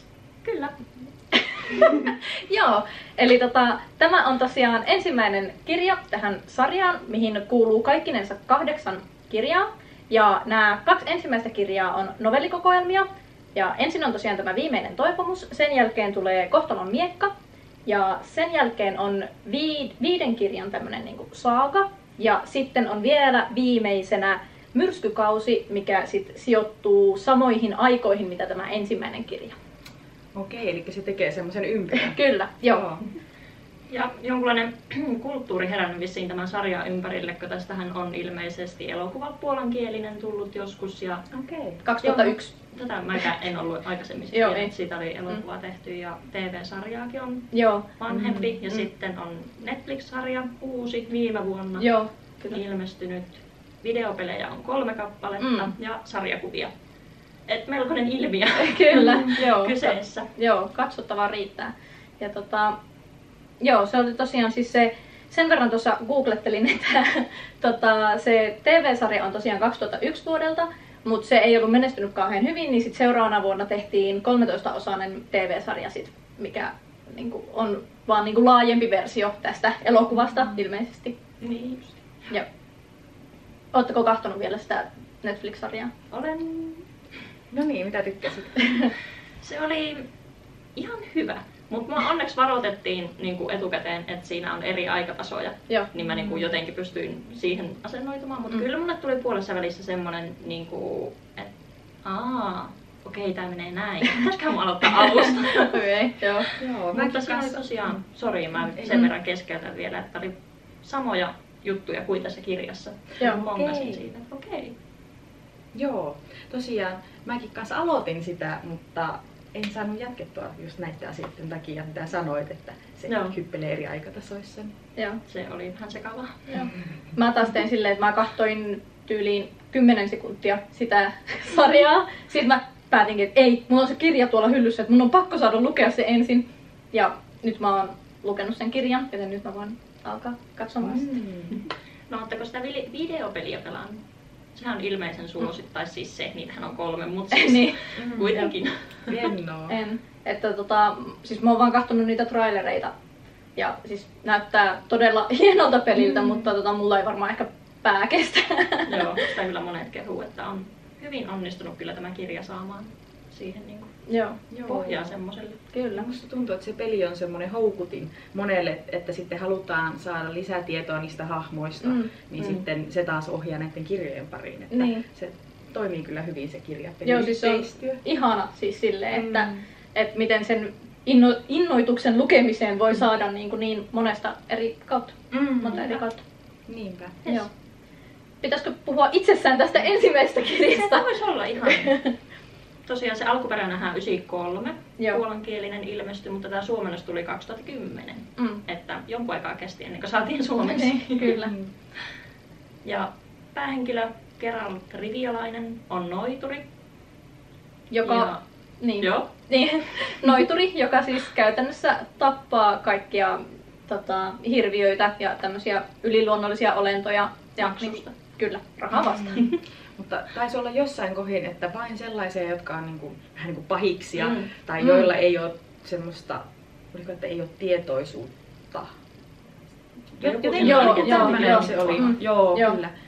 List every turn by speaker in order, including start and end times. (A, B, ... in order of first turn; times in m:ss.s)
0:00.4-0:00.8 A
0:01.5-0:17.3 B
0:17.9-0:29.5 B
0:30.3-0:33.0 C
0:31.9-0:32.9 B
0:33.9-0:41.2 A
0:41.3-0:41.8 C
0:41.8-0:42.5 B
0:42.0-0:51.9 A
0:44.3-0:44.7 B
0:47.5-0:47.9 B
0:48.1-0:48.8 C
0:51.8-0:52.6 B
0:52.5-0:56.7 A
0:55.4-0:55.7 B
0:57.5-1:00.3 A
0:58.6-1:02.8 B
1:03.6-1:21.2 B
1:21.4-1:22.0 A
1:23.7-1:25.9 B
1:26.1-1:26.8 A
1:27.5-1:28.9 C
1:29.4-1:30.1 A
1:30.8-1:41.5 A
1:36.0-1:36.6 C
1:42.0-1:45.8 A
1:45.6-1:46.5 B
1:46.4-1:54.7 A
1:46.6-1:48.0 C
1:48.7-1:49.1 C
1:53.2-1:54.0 C
1:55.7-2:04.7 C
2:03.1-2:03.4 A
2:05.0-2:05.2 B
2:05.3-2:06.5 A
2:06.5-2:21.2 B
2:20.8-2:21.6 C
2:22.1-2:24.0 A
2:24.6-2:29.3 A
2:27.3-2:27.8 B
2:28.0-2:28.4 C
2:29.1-2:29.8 C
2:29.7-2:32.9 B
2:33.6-2:39.3 B
2:36.0-2:36.5 C
2:38.9-2:43.9 A
2:44.1-2:44.4 B
2:44.5-2:45.1 C
2:44.6-2:45.6 A
2:45.7-2:46.1 B
2:45.9-2:58.0 C
2:51.8-2:52.1 B
2:54.7-2:55.0 B
2:57.0-3:06.2 B
2:59.1-2:59.6 C
3:05.3-3:05.9 C
3:06.7-3:07.2 C
3:08.4-3:11.1 B
3:10.6-3:12.0 A
3:11.6-3:12.1 B
3:12.9-3:21.4 A
3:18.4-3:18.6 B
3:20.6-3:21.5 B
3:21.2-3:21.7 C
3:22.8-3:26.6 A
3:27.9-3:39.5 B
3:28.0-3:28.4 A
3:29.0-3:29.3 A
3:37.6-3:38.1 A
3:38.9-3:48.9 C
3:44.2-3:44.5 A
3:44.8-3:45.1 B
3:50.2-3:52.2 A
3:50.2-3:52.9 C
3:50.6-3:52.8 B